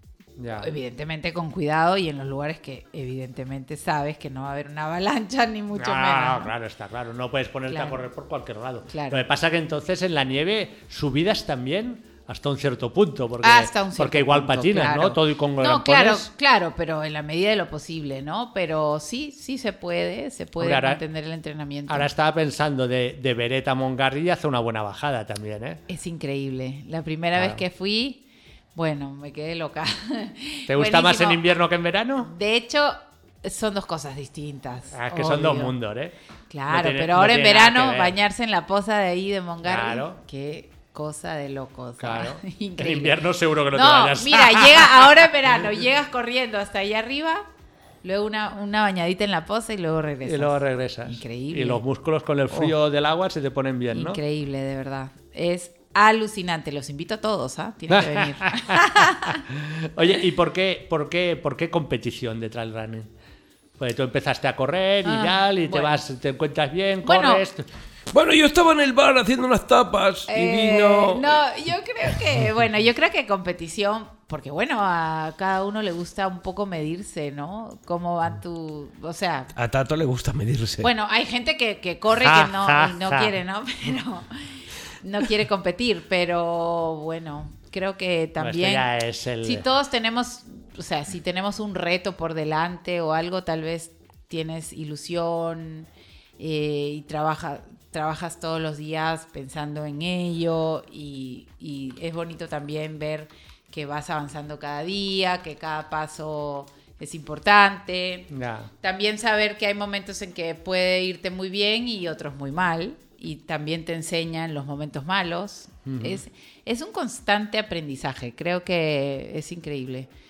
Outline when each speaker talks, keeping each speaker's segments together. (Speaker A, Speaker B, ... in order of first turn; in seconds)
Speaker A: 0.4-0.7, 5.8-16.3, 20.6-21.0, 21.9-25.8, 27.4-27.6, 30.7-32.3, 34.9-36.1, 36.7-38.2, 39.6-40.2, 42.0-45.3, 50.2-54.2, 57.9-63.1, 63.8-67.6, 82.2-83.3, 88.4-89.7, 108.3-108.7, 115.8-116.2
Speaker B: 0.6-6.5, 7.7-8.0, 8.9-9.2, 13.4-22.1, 25.9-28.2, 28.7-31.4, 32.2-35.7, 36.5-47.4, 48.0-51.8, 52.5-52.7, 53.9-59.4, 65.0-66.0, 67.0-67.4, 70.3-79.5, 80.8-84.4, 85.0-88.9, 89.4-95.9, 96.4-108.3, 108.8-120.1
Speaker C: 68.1-71.3, 79.5-80.9